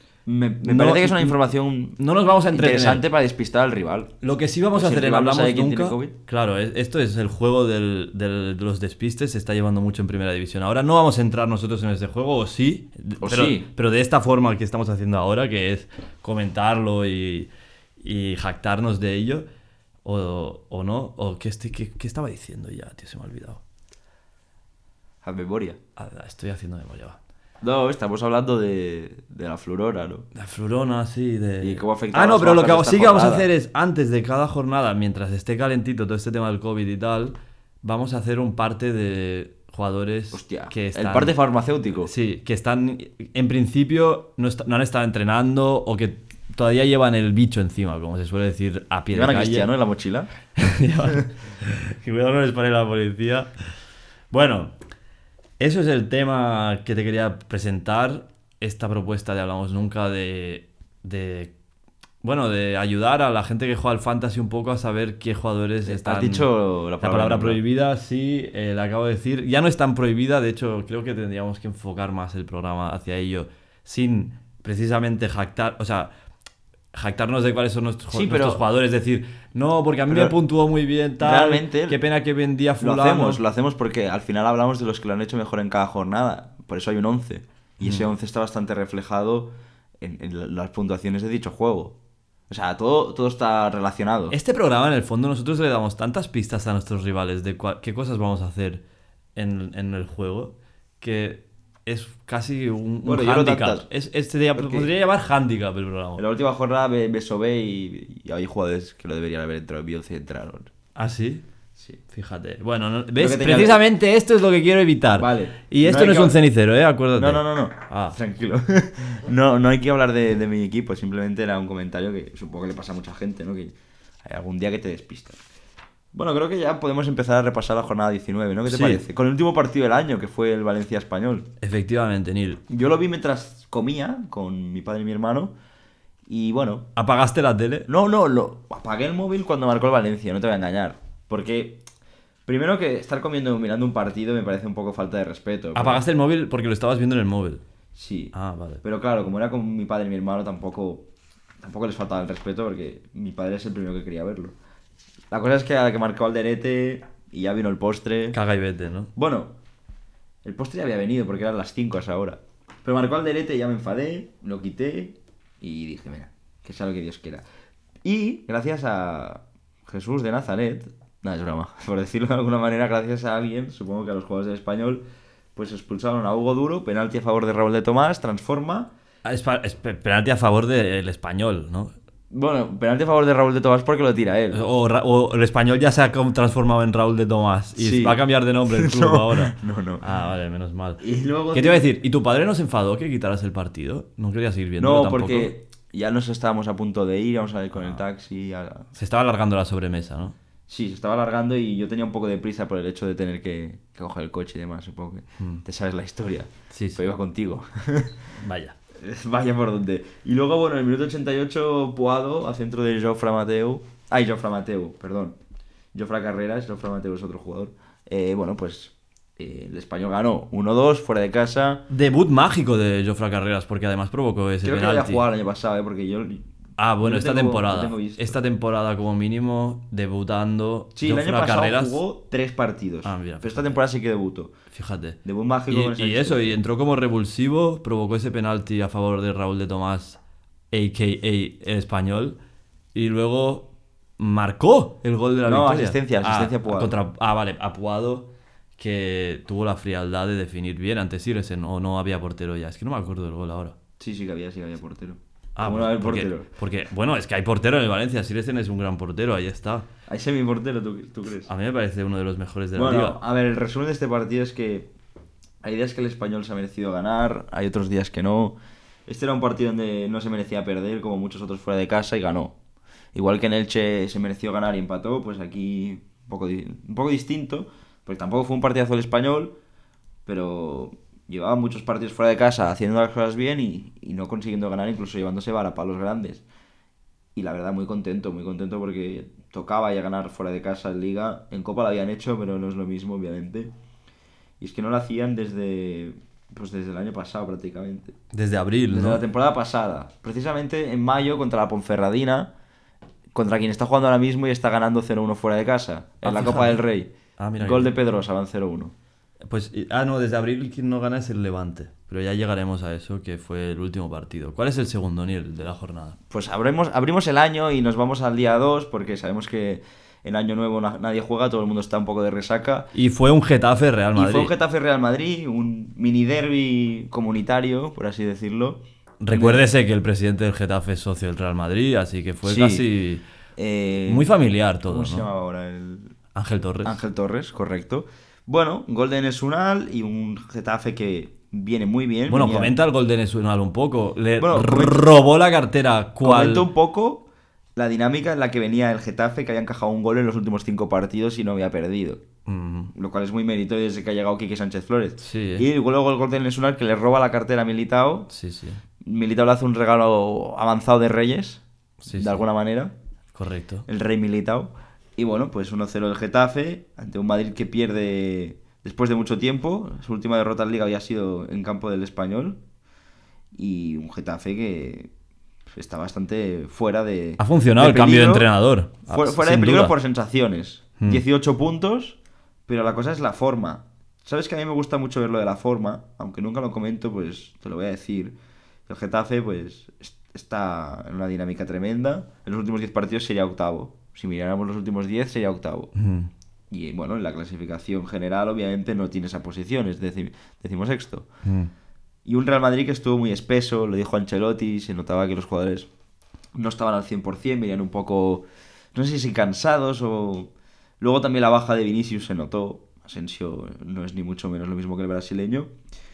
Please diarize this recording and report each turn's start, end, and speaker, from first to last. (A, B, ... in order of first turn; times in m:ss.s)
0:00.2-0:04.1 A
0:00.6-0:01.4 B
0:02.0-0:03.0 B
0:04.2-0:17.5 B
0:04.7-0:06.1 A
0:13.2-0:13.7 A
0:18.0-0:19.4 B
0:20.0-0:23.6 B
0:25.2-0:25.8 A
0:26.0-0:27.2 B
0:27.6-0:30.2 A
0:30.3-0:41.4 B
0:31.6-0:33.5 A
0:40.3-0:42.1 A
0:42.0-0:49.7 B
0:49.1-0:50.3 A
0:50.6-0:53.5 B
0:54.3-0:54.7 B
0:55.6-1:01.5 B
1:02.2-1:06.5 B
1:05.8-1:07.6 A
1:07.0-1:16.1 B
1:16.9-1:23.4 B
1:18.1-1:18.6 A
1:20.1-1:20.4 A
1:21.2-1:22.0 A
1:22.8-1:32.0 A
1:32.5-1:34.4 A
1:34.3-1:38.8 B
1:39.4-1:46.2 B
1:43.0-1:43.9 A
1:44.5-1:44.9 A
1:46.2-1:50.7 A
1:51.0-1:51.4 B
1:52.1-1:58.2 B
1:53.2-1:53.8 A
1:55.2-1:56.4 A
1:57.1-2:05.4 A
2:06.1-2:11.5 A
2:08.7-2:09.0 B
2:11.6-2:12.6 B
2:12.7-2:15.5 A
2:16.3-2:16.9 A
2:17.0-2:17.9 B
2:17.9-2:21.8 A
2:22.4-2:26.0 A
2:25.7-2:27.6 B
2:27.9-2:31.1 A
2:28.3-2:28.8 B
2:31.6-2:34.5 A
2:35.3-2:38.4 A
2:38.3-2:39.1 B
2:39.2-2:39.5 A
2:40.4-2:47.4 A
2:48.0-2:55.0 A
2:55.6-2:58.9 A
2:59.2-3:01.9 B
3:02.3-3:04.6 A
3:04.5-3:11.0 B
3:07.8-3:08.2 A
3:08.7-3:10.0 A
3:11.0-3:11.9 A
3:11.5-3:15.5 B
3:14.8-3:18.9 A
3:18.9-3:20.3 B
3:20.7-3:28.2 A
3:26.7-3:27.0 B
3:28.4-3:28.8 B
3:28.9-3:35.4 A
3:35.9-3:41.8 A
3:41.9-3:45.2 B
3:44.6-3:46.4 A
3:46.8-3:52.0 B
3:47.0-3:48.4 A
3:51.0-3:54.5 A
3:53.0-3:53.8 B
3:54.7-4:00.2 B
3:55.2-3:56.6 A
4:00.7-4:02.4 B
4:02.9-4:03.7 B
4:04.2-4:13.7 B
4:05.4-4:06.9 A
4:14.0-4:16.5 A
4:15.6-4:19.9 B
4:20.1-4:21.5 A
4:21.5-4:23.2 B
4:22.7-4:24.9 A
4:25.6-4:32.5 A
4:33.1-4:39.5 A
4:40.2-4:46.4 A
4:47.3-4:53.7 A
4:54.6-4:58.1 A
4:58.3-4:59.2 B
4:58.9-5:02.5 A
5:03.3-5:08.9 A
5:06.2-5:06.8 B
5:07.4-5:07.9 B
5:09.5-5:16.2 B
5:16.3-5:22.9 A
5:22.9-5:24.5 B
5:24.1-5:29.6 A
5:29.2-5:33.2 B
5:32.4-5:32.8 A
5:33.6-5:34.3 A
5:34.1-5:35.2 B
5:34.8-5:36.1 A
5:36.3-5:37.0 B
5:36.8-5:42.7 A
5:42.3-5:46.6 B
5:44.4-5:45.1 A
5:46.2-5:52.2 A
5:52.4-5:52.9 B
5:52.9-5:58.3 A
5:55.2-5:55.7 B
5:58.3-5:58.8 B
5:59.0-6:02.9 A
6:02.0-6:02.4 B
6:03.3-6:03.9 B
6:03.9-6:12.6 A
6:13.5-6:15.1 A
6:15.7-6:18.5 A
6:17.4-6:19.9 B
6:19.1-6:28.4 A
6:28.9-6:35.9 A
6:36.0-6:36.3 B
6:36.7-6:41.3 A
6:41.4-6:41.7 B
6:42.2-6:45.9 A
6:46.5-6:55.7 A